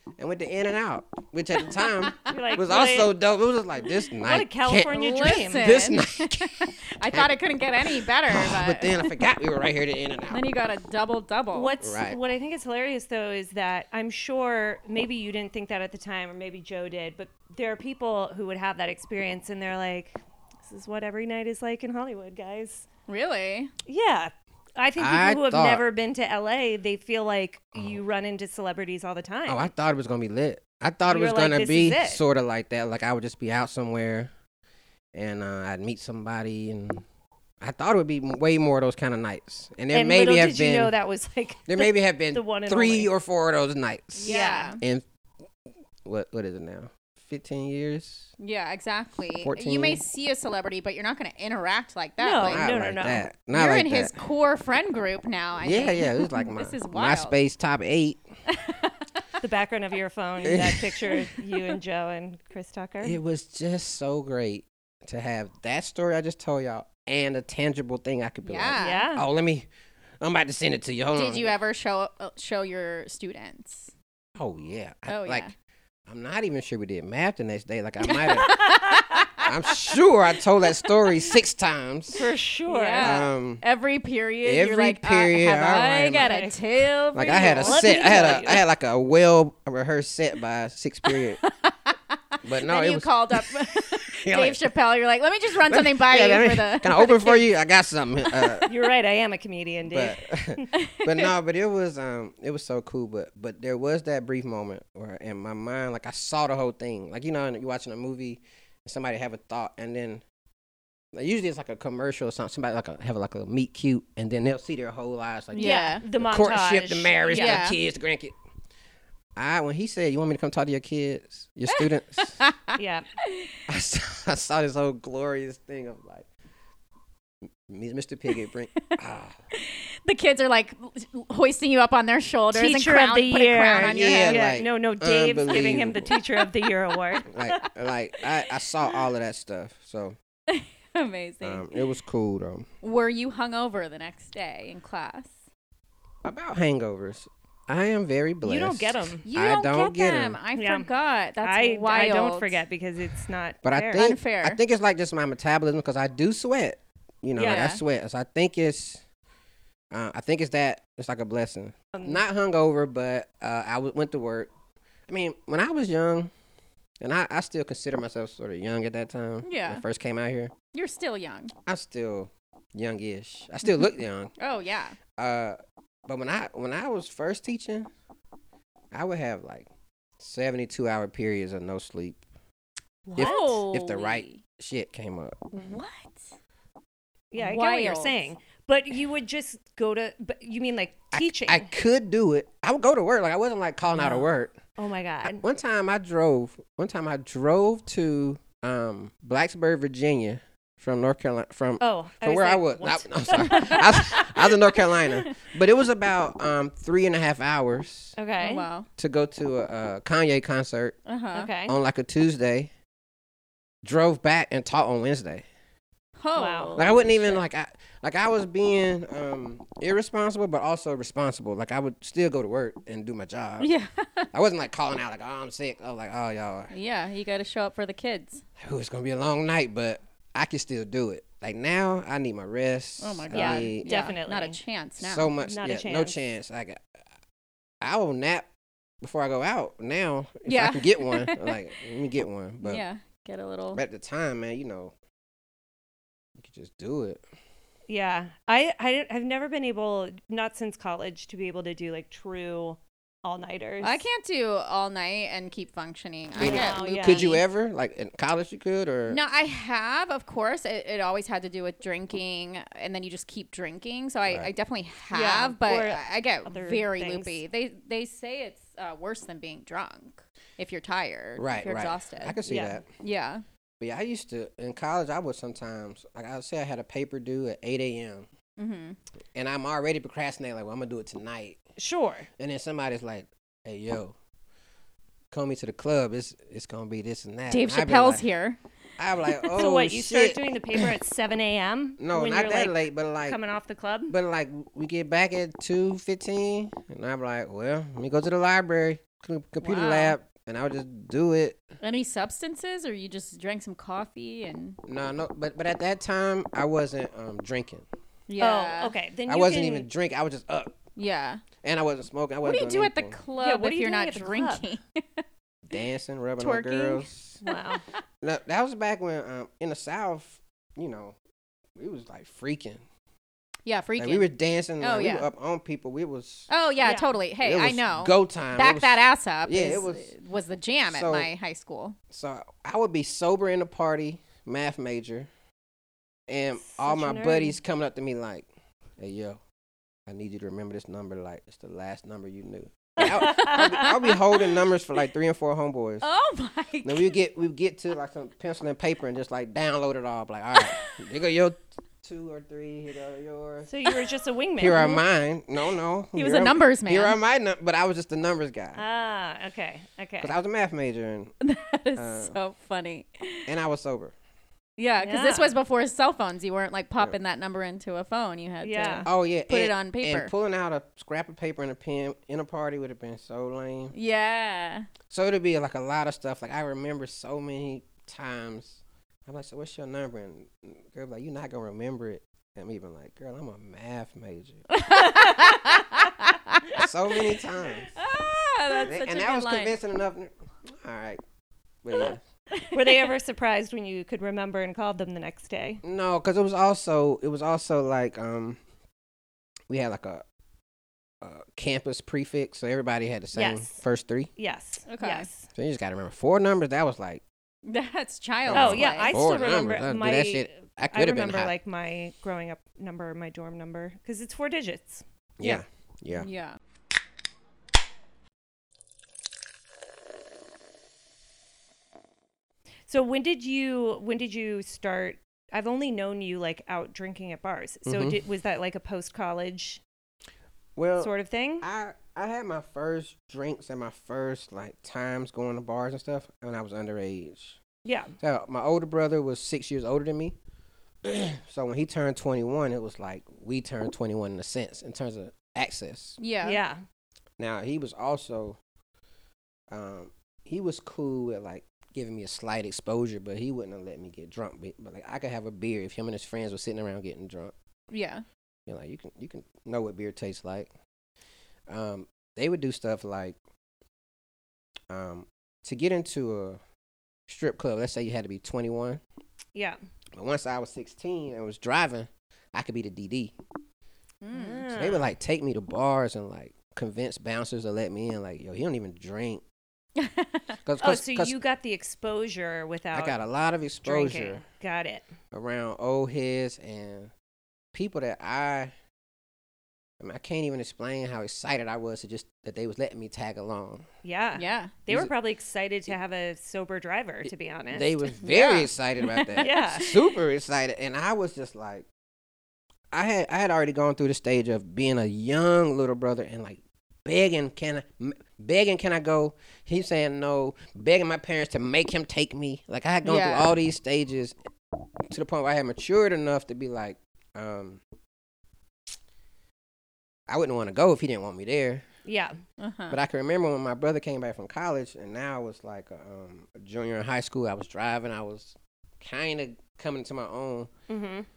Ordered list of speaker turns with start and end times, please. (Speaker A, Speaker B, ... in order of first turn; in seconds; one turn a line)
Speaker A: 0.2-7.3
Speaker B: 2.3-3.1
Speaker B: 4.2-5.8
Speaker C: 4.9-9.1
Speaker A: 8.0-10.4
Speaker C: 10.3-11.7
Speaker B: 11.5-22.9
Speaker A: 11.8-12.2
Speaker C: 23.1-23.7
Speaker B: 23.9-29.7
Speaker A: 25.0-25.8
Speaker A: 29.5-34.3
Speaker B: 31.1-32.2
Speaker A: 35.1-37.0
Speaker A: 37.6-40.9
Speaker B: 39.9-43.1
Speaker A: 41.7-45.0
Speaker C: 44.1-44.8
Speaker B: 44.3-44.7
Speaker A: 46.0-48.3
Speaker C: 48.4-52.6
Speaker A: 49.4-50.0
Speaker B: 52.2-53.2
Speaker A: 52.4-54.2
Speaker C: 53.5-57.4
Speaker A: 55.6-58.2
Speaker C: 58.5-59.0
Speaker B: 59.4-63.2
Speaker A: 60.4-61.0
Speaker A: 63.0-69.7
Speaker C: 68.4-69.1
Speaker B: 68.8-69.2
Speaker A: 70.2-71.5
Speaker C: 71.1-73.9
Speaker A: 74.3-75.5
Speaker C: 75.1-75.5
Speaker A: 76.1-78.5
Speaker C: 78.0-79.4
Speaker B: 78.4-79.3
Speaker A: 79.4-82.2
Speaker B: 82.2-83.2
Speaker C: 82.7-88.4
Speaker A: 83.0-83.6
Speaker A: 84.4-86.3
Speaker B: 86.1-86.6
Speaker B: 87.1-88.6
Speaker A: 87.1-91.4
Speaker C: 91.1-97.5
Speaker A: 92.4-94.7
Speaker A: 95.6-98.7
Speaker C: 98.4-98.7
Speaker B: 98.7-100.7
Speaker A: 99.8-110.2
Speaker C: 100.7-101.0
Speaker A: 111.1-118.3
Speaker C: 115.5-116.0
Speaker B: 115.5-117.6
Speaker C: 117.3-117.8
Speaker A: 119.3-122.4
Speaker C: 122.4-123.5
Speaker B: 122.8-123.0
Speaker A: 123.7-126.3
Speaker A: 127.7-129.3
Speaker C: 129.5-134.5
Speaker B: 132.5-137.5
Speaker A: 133.8-136.1
Speaker A: 137.2-140.2
Speaker C: 140.5-141.7
Speaker A: 141.4-142.7
Speaker C: 142.8-145.3
Speaker A: 146.2-150.4
Speaker B: 148.4-149.2
Speaker C: 149.2-152.6
Speaker B: 150.6-150.9
Speaker B: 151.4-154.1
Speaker A: 153.6-159.0
Speaker C: 153.9-154.6
Speaker B: 157.3-157.7
Speaker C: 157.4-157.8
Speaker A: 159.9-164.5
Speaker B: 161.9-162.2
Speaker A: 165.1-166.3
Speaker A: 167.0-170.5
Speaker C: 169.4-169.8
Speaker C: 170.7-171.5
Speaker A: 171.7-174.3
Speaker C: 173.6-175.0
Speaker A: 175.2-177.9
Speaker A: 178.9-182.2
Speaker B: 183.1-183.7
Speaker A: 183.2-185.5
Speaker C: 183.2-184.4
Speaker C: 185.5-186.2
Speaker B: 187.3-191.7
Speaker C: 187.3-188.2
Speaker A: 191.1-194.6
Speaker B: 193.9-195.4
Speaker A: 195.2-208.1
Speaker B: 201.8-204.8
Speaker B: 208.2-208.7
Speaker C: 208.4-208.9
Speaker A: 209.0-211.0
Speaker C: 211.1-211.5
Speaker B: 211.3-211.8
Speaker A: 211.7-212.7
Speaker A: 213.8-215.4
Speaker C: 216.2-217.2
Speaker B: 216.3-217.4
Speaker A: 216.8-223.7
Speaker C: 223.6-224.3
Speaker A: 224.3-226.7
Speaker C: 226.7-228.4
Speaker A: 228.6-234.1
Speaker C: 233.0-235.3
Speaker B: 233.3-234.6
Speaker A: 235.0-236.8
Speaker B: 235.4-236.2
Speaker A: 237.8-238.5
Speaker A: 239.0-242.8
Speaker C: 240.4-241.6
Speaker C: 242.6-243.8
Speaker A: 243.7-244.9
Speaker A: 246.4-247.2
Speaker B: 247.9-254.0
Speaker C: 253.8-257.4
Speaker A: 256.4-259.2
Speaker B: 256.4-257.3
Speaker C: 259.1-272.4
Speaker B: 265.1-267.4
Speaker A: 271.4-272.8
Speaker B: 272.4-272.8
Speaker C: 273.0-273.4
Speaker A: 273.8-278.3
Speaker C: 278.6-279.0
Speaker A: 279.3-281.6
Speaker B: 281.8-282.3
Speaker A: 282.4-284.1
Speaker A: 285.3-288.2
Speaker C: 287.5-288.6
Speaker A: 289.0-290.9
Speaker B: 289.5-294.1
Speaker A: 292.0-293.4
Speaker A: 294.1-301.6
Speaker C: 299.6-300.1
Speaker C: 301.8-304.8
Speaker A: 304.9-307.9
Speaker C: 308.3-308.9
Speaker B: 308.4-309.9
Speaker A: 309.3-310.7
Speaker C: 310.9-311.4
Speaker A: 311.6-313.2
Speaker C: 312.4-315.2
Speaker B: 313.4-314.6
Speaker A: 315.7-317.4
Speaker C: 316.4-317.1
Speaker B: 317.4-317.8
Speaker A: 318.2-321.2
Speaker A: 321.8-322.8
Speaker C: 323.6-324.3
Speaker A: 324.0-326.5
Speaker C: 324.8-325.3
Speaker C: 326.5-332.0
Speaker B: 326.8-327.1
Speaker A: 327.4-330.1
Speaker A: 330.9-331.3
Speaker A: 332.1-335.3
Speaker A: 336.3-338.5
Speaker B: 336.6-337.6
Speaker A: 339.0-339.4
Speaker A: 340.1-346.1
Speaker B: 343.0-343.9
Speaker C: 343.2-343.9
Speaker C: 346.0-347.1
Speaker A: 346.8-353.7
Speaker C: 350.6-350.9
Speaker B: 353.7-355.0
Speaker A: 354.6-358.8
Speaker C: 356.1-357.2
Speaker B: 358.8-360.3
Speaker A: 360.2-361.3
Speaker C: 361.4-363.5
Speaker A: 362.0-362.3
Speaker A: 363.5-364.1
Speaker C: 364.8-370.3
Speaker B: 365.0-365.6
Speaker B: 368.6-369.1
Speaker A: 369.1-373.9
Speaker C: 373.9-374.9
Speaker A: 375.1-384.6
Speaker C: 384.7-386.8
Speaker B: 385.1-385.8
Speaker A: 386.7-387.9
Speaker C: 387.9-389.8
Speaker A: 388.9-391.2
Speaker A: 391.8-392.2
Speaker C: 392.5-392.9
Speaker B: 392.7-395.8
Speaker A: 395.8-398.6
Speaker A: 399.7-400.2
Speaker A: 401.2-404.3
Speaker B: 403.3-403.8
Speaker B: 404.4-405.5
Speaker C: 404.9-405.3
Speaker A: 405.5-407.2
Speaker C: 407.6-409.1
Speaker A: 408.4-411.5
Speaker B: 408.5-415.6
Speaker A: 415.4-416.3
Speaker C: 416.1-416.6
Speaker B: 422.9-429.8
Speaker A: 427.9-428.2
Speaker A: 430.8-437.6
Speaker B: 431.0-431.6
Speaker B: 437.8-438.1
Speaker A: 438.2-440.4
Speaker A: 441.0-446.2
Speaker C: 446.2-446.6
Speaker B: 446.4-446.8
Speaker A: 447.4-448.6
Speaker A: 449.7-457.5
Speaker C: 457.9-458.2
Speaker A: 458.7-460.7
Speaker A: 461.7-463.4
Speaker A: 464.9-466.6
Speaker A: 467.3-469.0
Speaker A: 470.1-473.3
Speaker C: 474.2-474.6
Speaker B: 474.3-475.1
Speaker A: 474.7-479.4
Speaker C: 480.0-480.6
Speaker A: 480.6-481.3
Speaker B: 480.8-483.2
Speaker A: 482.9-484.4
Speaker B: 483.8-485.0
Speaker A: 485.3-487.1
Speaker A: 487.7-488.7
Speaker A: 490.0-493.9
Speaker B: 494.0-498.1
Speaker C: 494.4-494.7
Speaker A: 497.7-501.9
Speaker C: 498.2-499.9
Speaker B: 499.4-499.9
Speaker A: 502.9-514.3
Speaker C: 513.0-513.5
Speaker A: 515.1-517.8
Speaker A: 520.3-521.8
Speaker B: 522.0-522.4
Speaker C: 522.6-523.0
Speaker A: 522.9-530.7
Speaker B: 530.9-531.2